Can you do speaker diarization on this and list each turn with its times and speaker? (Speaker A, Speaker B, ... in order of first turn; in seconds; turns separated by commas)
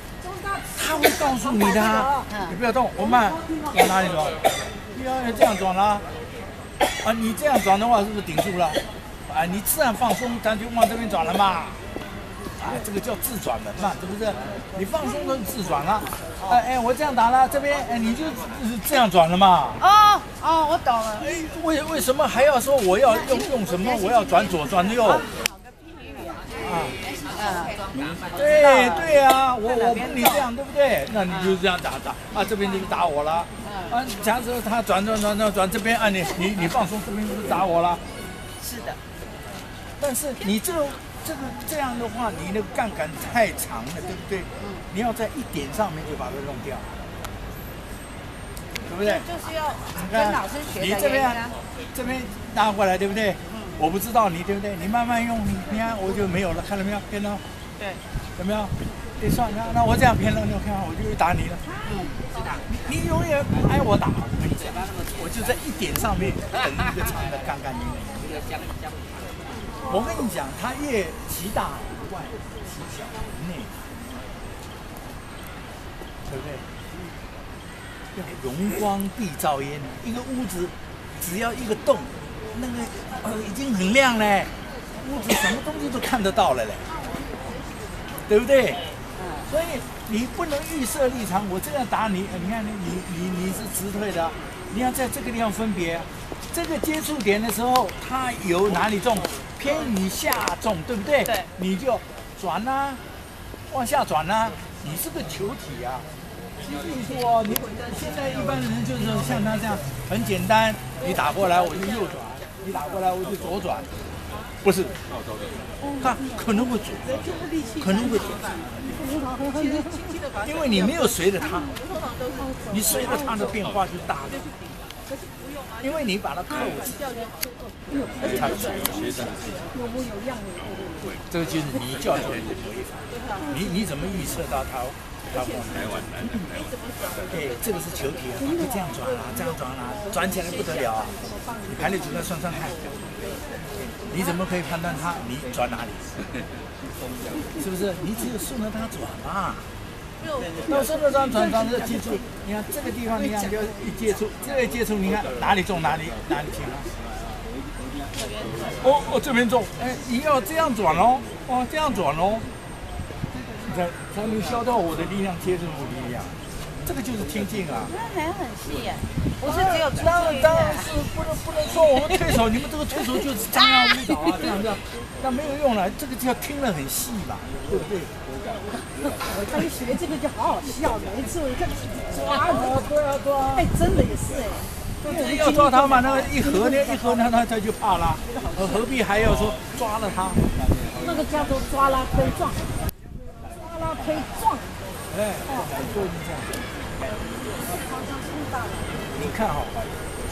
Speaker A: 0.2-2.3, Speaker B: 0.8-4.4, Speaker C: 2.3-2.5, Speaker A: 3.2-3.7, Speaker B: 4.9-6.0, Speaker B: 7.0-11.8, Speaker B: 12.6-19.8, Speaker C: 19.8-21.3, Speaker B: 21.2-25.3, Speaker B: 26.6-27.0, Speaker C: 27.4-27.8, Speaker B: 28.3-38.0, Speaker C: 28.4-29.1, Speaker C: 29.9-30.5, Speaker C: 33.7-33.9, Speaker C: 38.6-39.0, Speaker B: 40.0-46.9, Speaker B: 48.9-49.3, Speaker C: 49.0-51.5, Speaker B: 49.9-57.4, Speaker C: 53.5-53.8, Speaker B: 58.4-61.6, Speaker C: 61.9-62.1, Speaker B: 62.7-68.3, Speaker B: 69.9-73.9, Speaker B: 76.3-76.7, Speaker B: 78.2-86.9, Speaker B: 88.3-88.8, Speaker C: 89.2-89.5, Speaker B: 89.5-103.0, Speaker B: 103.7-106.1, Speaker B: 106.6-113.9, Speaker B: 114.6-115.0, Speaker B: 116.0-117.2, Speaker B: 117.8-118.5, Speaker A: 118.9-120.1, Speaker B: 120.4-121.8, Speaker B: 122.7-124.4, Speaker B: 125.8-127.0, Speaker A: 127.9-128.5, Speaker B: 128.2-129.4, Speaker A: 129.7-131.1, Speaker B: 131.3-136.5, Speaker B: 137.3-141.2, Speaker B: 141.7-142.8, Speaker B: 144.0-146.2, Speaker B: 147.6-149.7, Speaker B: 150.7-156.9, Speaker B: 158.8-162.5, Speaker B: 163.7-167.9, Speaker C: 167.9-170.9, Speaker B: 169.4-178.1, Speaker A: 179.3-182.7, Speaker B: 182.4-183.7, Speaker A: 183.6-184.7, Speaker B: 185.0-190.4, Speaker A: 185.3-186.9, Speaker A: 191.0-192.6, Speaker A: 193.5-194.7, Speaker B: 195.1-196.5, Speaker A: 197.7-198.9, Speaker B: 199.2-199.8